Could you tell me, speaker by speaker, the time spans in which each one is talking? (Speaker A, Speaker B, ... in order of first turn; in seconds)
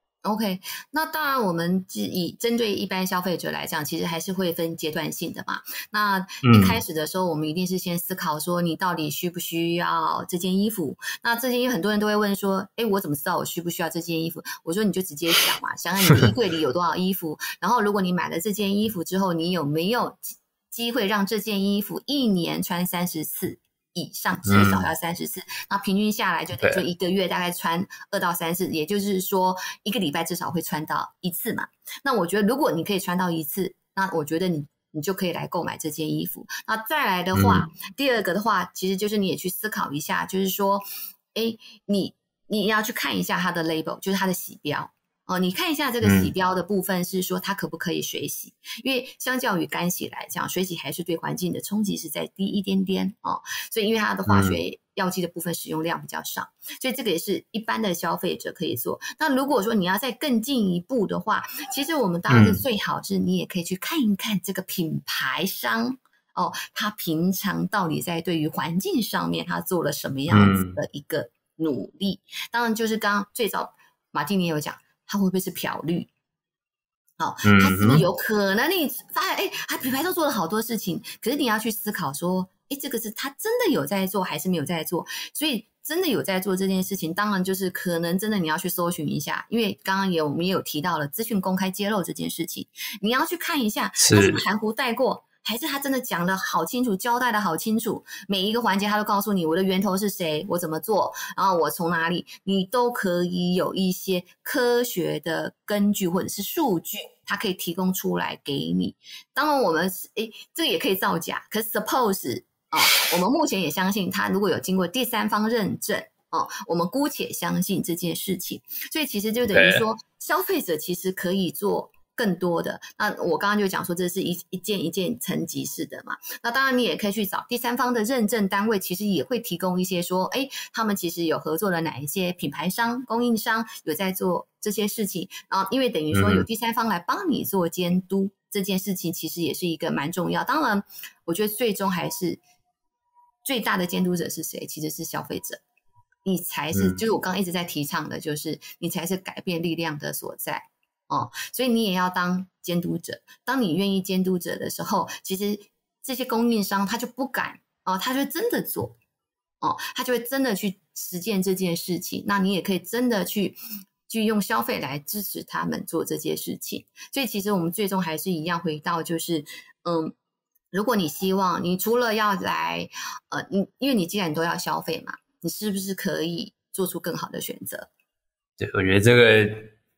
Speaker A: 0.2-76.1, 77.2-142.4, 143.4-145.6, 146.2-158.9, 159.6-170.1, 170.7-177.9
Speaker B: 6.4-6.8, 24.5-24.9, 26.6-26.8, 37.3-37.7, 46.0-46.3, 54.3-54.6, 62.3-62.6, 70.3-70.8, 77.4-78.0, 94.0-94.4, 119.5-119.8, 136.1-136.4, 146.7-147.0, 178.6-179.7